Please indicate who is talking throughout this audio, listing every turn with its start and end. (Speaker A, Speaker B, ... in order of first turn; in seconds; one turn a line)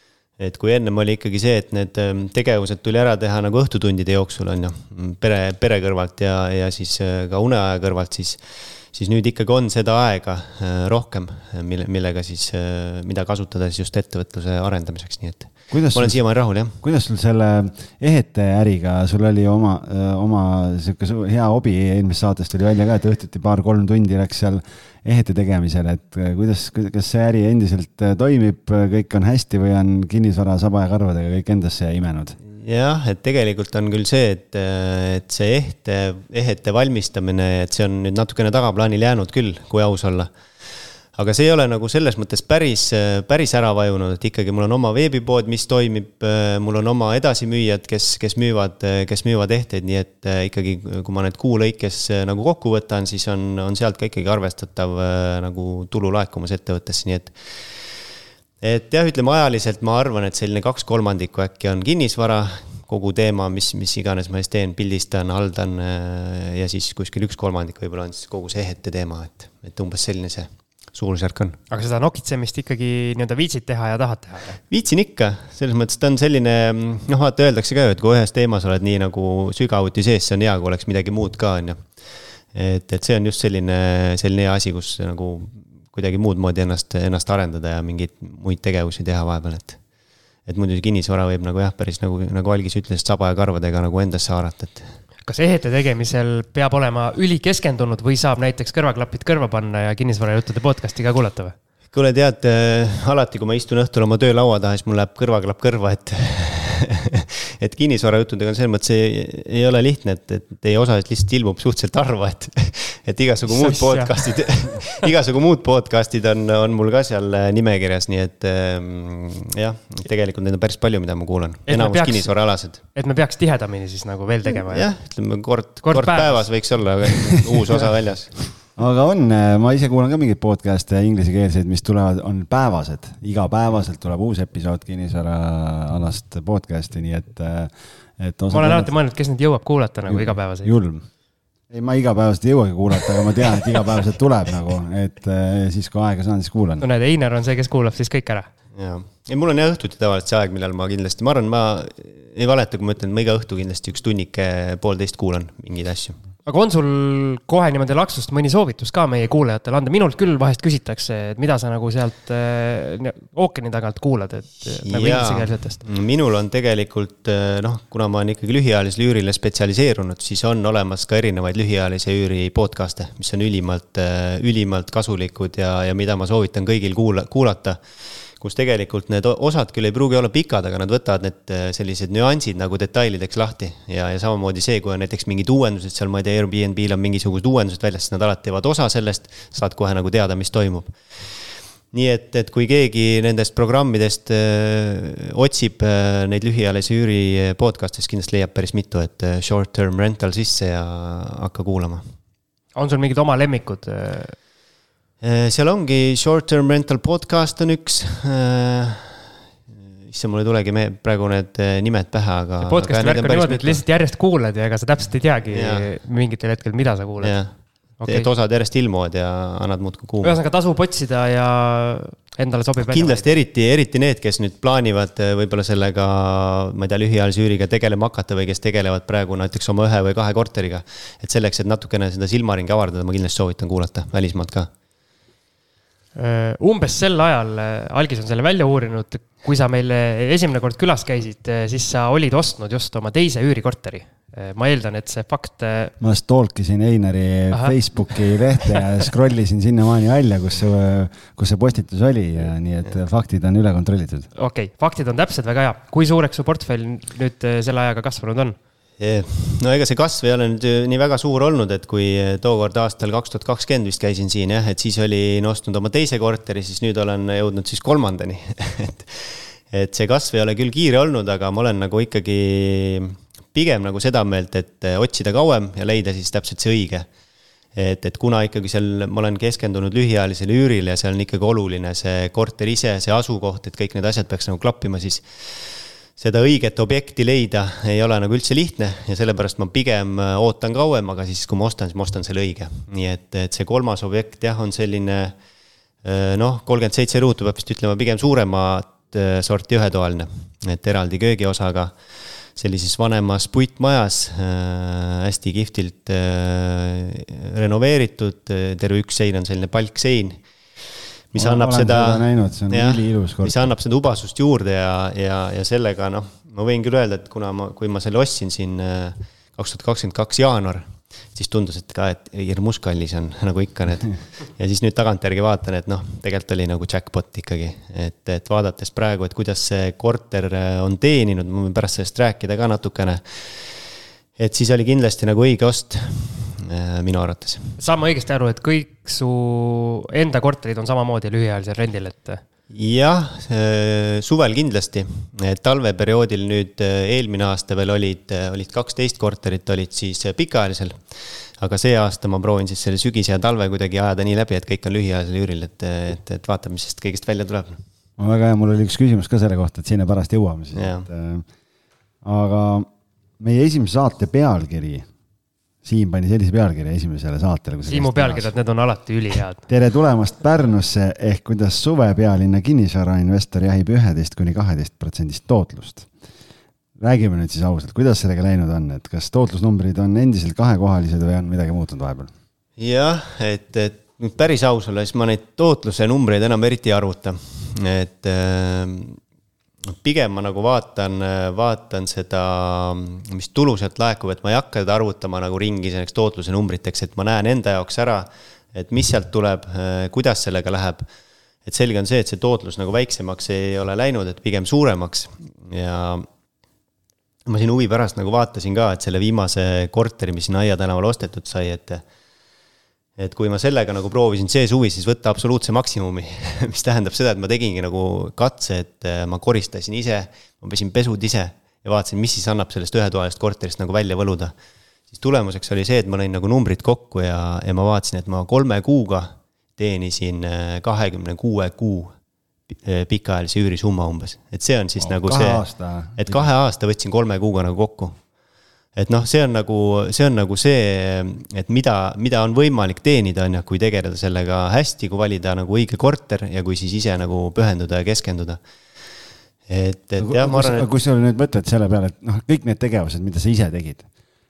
Speaker A: 0.4-16.8
Speaker B: 15.7-16.2
Speaker B: 16.8-32.4
Speaker A: 32.5-57.9
Speaker A: 58.6-71.6
Speaker C: 71.7-74.6
Speaker A: 74.7-81.9
Speaker A: 82.5-89.8
Speaker A: 90.5-94.9
Speaker C: 95.2-101.5
Speaker A: 101.9-122.8
Speaker C: 113.5-114.5
Speaker C: 121.7-124.9
Speaker A: 124.5-128.5
Speaker C: 125.8-126.5
Speaker B: 128.8-138.9
Speaker C: 138.5-140.7
Speaker B: 140.1-141.0
Speaker B: 141.7-146.8
Speaker C: 146.8-148.5
Speaker A: 148.7-156.2
Speaker C: 156.4-165.8
Speaker A: 164.8-202.0
Speaker C: 202.7-204.3
Speaker A: 205.2-209.3
Speaker A: 210.1-213.8
Speaker C: 212.6-217.4
Speaker A: 215.5-215.9
Speaker A: 217.2-220.4
Speaker C: 218.0-218.3
Speaker C: 220.2-223.2
Speaker A: 222.8-234.7
Speaker C: 236.2-245.9
Speaker B: 246.0-254.3
Speaker C: 247.5-248.8
Speaker C: 254.3-258.6
Speaker A: 259.0-277.1
Speaker A: 277.7-295.3
Speaker A: 296.0-301.9
Speaker A: 302.5-337.8
Speaker B: 311.4-313.7
Speaker C: 337.8-342.4
Speaker A: 342.7-357.8
Speaker B: 358.2-361.4
Speaker A: 360.7-361.1
Speaker B: 362.2-362.9
Speaker B: 363.4-365.1
Speaker B: 365.8-368.5
Speaker C: 367.9-369.6
Speaker B: 369.7-376.1
Speaker B: 377.0-382.3
Speaker A: 382.8-389.2
Speaker A: 389.9-401.0
Speaker A: 401.6-406.3
Speaker A: 407.4-412.0
Speaker A: 413.2-424.5
Speaker A: 425.1-432.1
Speaker A: 432.7-435.6
Speaker B: 435.0-436.5
Speaker A: 436.2-438.2
Speaker A: 438.9-448.6
Speaker A: 449.7-450.9
Speaker B: 450.2-454.1